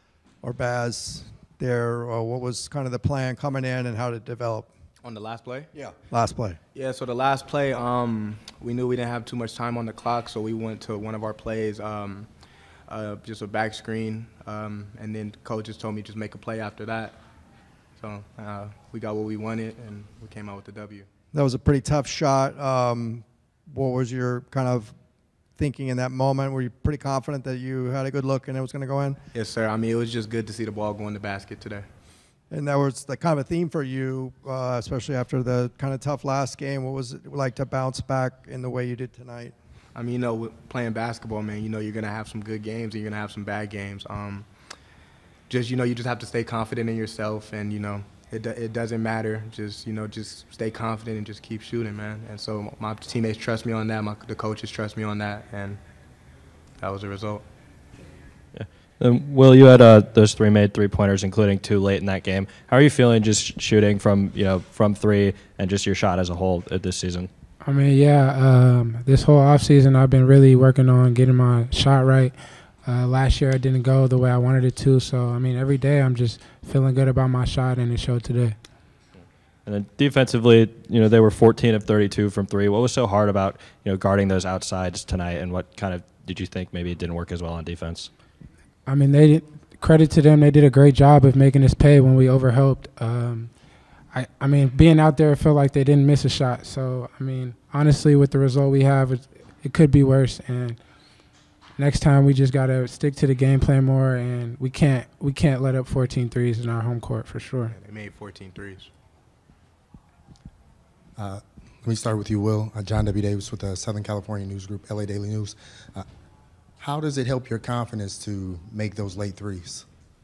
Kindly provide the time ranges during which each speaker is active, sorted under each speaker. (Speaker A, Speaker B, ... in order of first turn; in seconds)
Speaker A: 0.4-4.7, 5.7-6.6, 21.3-24.9, 25.6-29.2, 32.5-39.5
Speaker B: 5.0-5.7, 6.7-12.3, 12.9-17.2, 18.0-21.1, 29.3-31.9, 39.9-44.5, 45.5-55.8, 56.8-57.4, 107.7-108.9
Speaker C: 58.5-67.3, 79.7-88.1
Speaker D: 67.6-78.6, 88.8-93.5, 94.1-100.8, 101.8-107.7
Speaker E: 111.2-116.0, 116.8-119.8